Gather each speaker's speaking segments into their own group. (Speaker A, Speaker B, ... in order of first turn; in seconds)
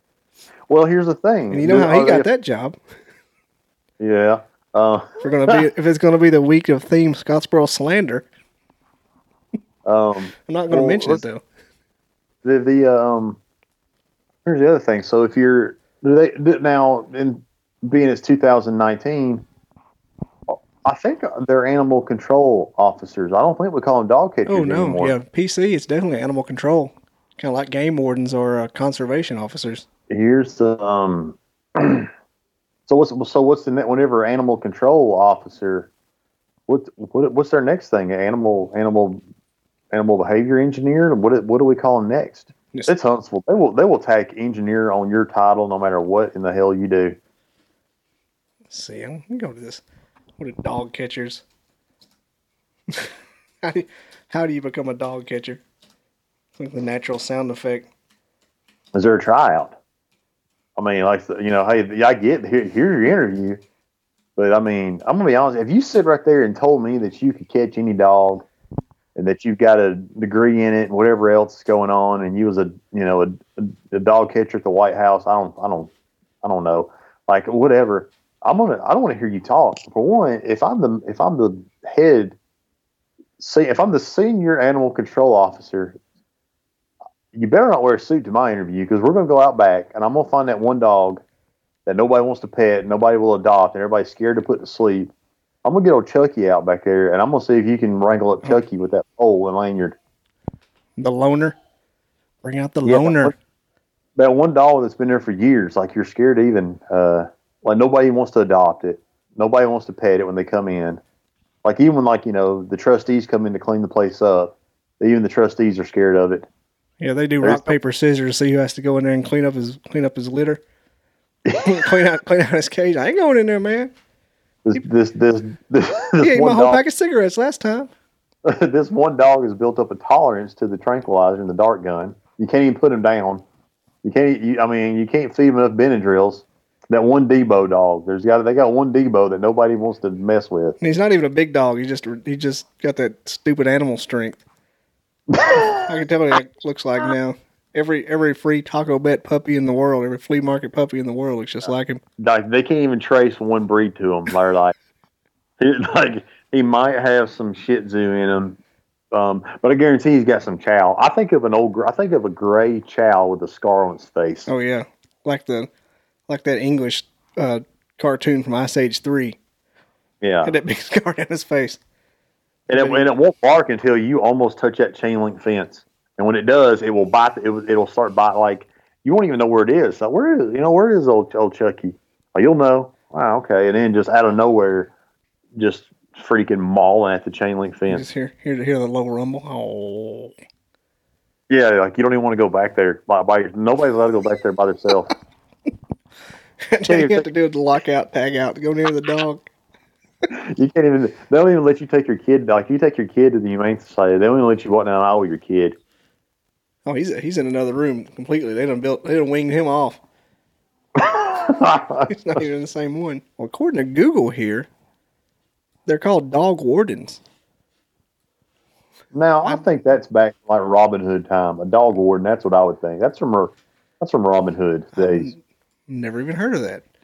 Speaker A: 0.7-2.3, 4.0-5.6, 9.8-11.2, 12.4-13.4, 14.4-19.4, 20.5-25.1, 30.1-32.1, 32.9-35.9, 36.7-39.2, 39.9-47.2, 58.9-59.8, 60.8-63.6, 64.3-68.5, 69.2-75.9, 76.4-82.4, 83.4-86.0, 87.3-91.2, 91.8-95.1, 95.6-100.0, 102.8-103.3, 104.2-111.0, 111.6-116.5, 117.4-117.8, 121.5-121.9, 124.6-126.8, 128.4-133.4, 134.0-140.8, 145.3-145.8, 152.2-154.7, 155.6-158.6, 159.1-164.5, 170.2-170.5, 172.7-184.9, 185.6-188.1, 191.5-195.1, 196.9-197.2, 200.3-205.8, 210.9-212.4, 219.1-225.3
Speaker B: 1.5-2.8, 5.2-8.3, 10.4-11.4, 24.5-29.9, 48.7-49.8, 50.4-51.4, 53.6-55.6, 56.5-57.9, 101.0-101.6, 102.4-103.3, 117.0-120.6, 121.6-123.9, 126.2-127.9, 140.8-144.4, 145.5-152.0, 164.5-165.7, 166.3-169.4, 170.4-171.8, 172.7-173.1, 187.9-190.3, 196.7-199.5, 206.8-210.0, 212.1-214.7, 215.8-217.2, 224.9-226.8